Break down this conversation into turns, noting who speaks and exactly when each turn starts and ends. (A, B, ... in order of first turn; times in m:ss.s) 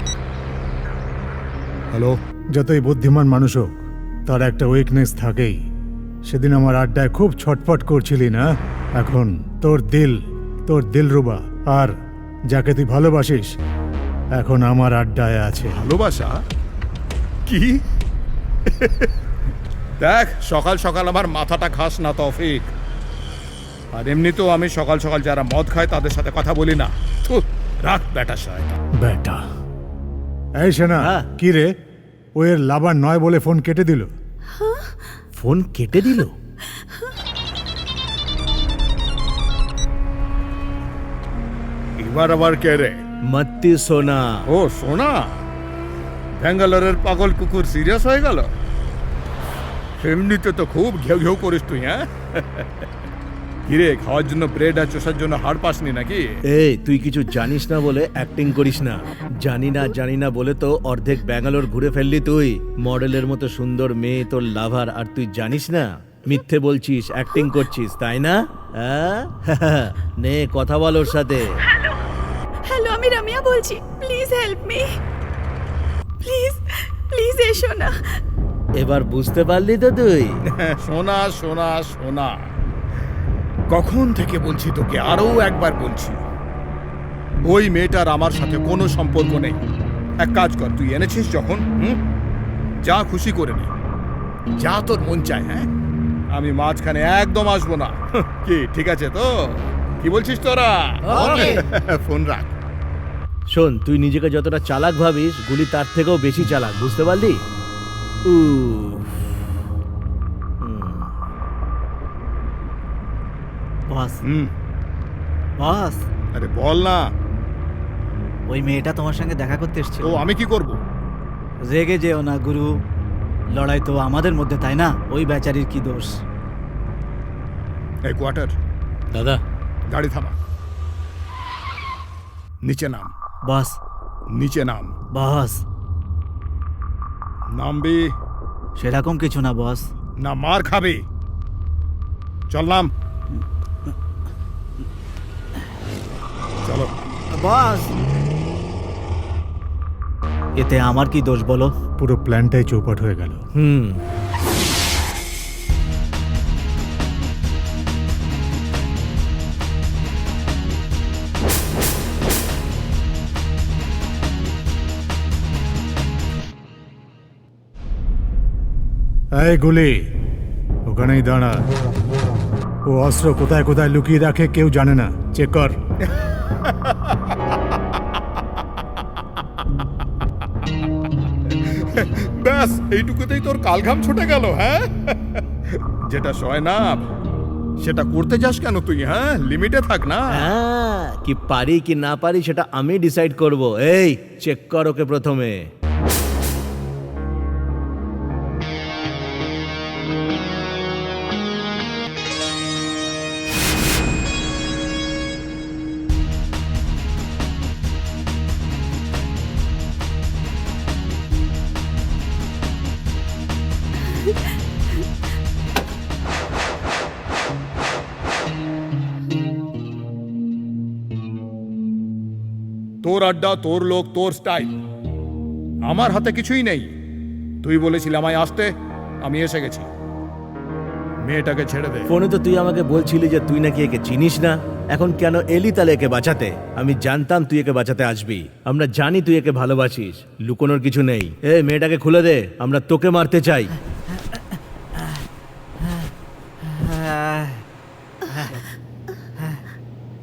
0:02.6-0:05.6 A
0:06.3-0:12.0 A
0:12.5-0:13.5 A
0:14.3-0:15.8 A
0:15.7-0:16.4 B
0:17.5-0:17.8 B
0:18.7-0:19.1 B
0:20.0-0:22.7 B
0:23.9-0:28.8 B
0:29.0-0:29.4 A
0:30.6-0:31.7 A
0:32.4-0:34.1 A
0:34.6-0:34.9 C
0:35.4-0:36.3 D
0:42.0-0:43.0 B
0:43.3-0:44.3 D
0:44.5-0:45.2 B
0:46.4-0:48.5 B
0:50.0-0:52.8 B
0:53.7-0:56.2 B
0:56.6-1:11.5 D
1:12.7-1:14.9 C
1:16.2-1:18.2 C
1:18.8-1:20.4 D
1:20.5-1:22.5 B
1:23.7-1:26.2 B
1:27.4-1:29.6 B
1:30.2-1:32.0 B
1:32.8-1:33.7 B
1:34.6-1:35.7 B
1:36.3-1:42.5 B
1:41.1-1:41.6 E
1:43.5-1:47.4 D
1:48.3-1:49.2 D
1:50.6-1:51.1 D
1:53.9-1:54.2 E
1:54.2-1:54.5 B
1:55.6-1:56.0 E
1:56.3-1:57.0 B
1:58.5-2:00.2 E
2:00.0-2:00.8 B
2:01.7-2:02.7 E
2:03.5-2:06.2 E
2:08.1-2:08.6 B
2:09.9-2:10.4 B
2:12.6-2:13.1 B
2:13.5-2:13.8 E
2:14.4-2:14.9 B
2:15.1-2:15.6 E
2:17.5-2:18.1 B
2:18.8-2:19.9 E
2:20.2-2:21.0 B
2:22.5-2:22.9 B
2:26.6-2:26.9 B
2:27.3-2:28.0 E
2:30.6-2:31.7 E
2:32.0-2:33.4 A
2:33.6-2:34.0 D
2:49.4-2:50.1 A
2:50.9-2:51.6 A
2:52.9-2:55.8 A
2:56.6-2:57.2 B
3:01.5-3:07.0 B
3:07.8-3:10.6 B
3:10.5-3:15.7 D
3:43.0-3:44.8 B
3:45.9-3:46.9 B
3:47.6-3:48.7 B
3:49.2-3:49.9 B
3:51.2-3:52.1 B
3:52.1-4:03.7 D
4:06.7-4:07.6 E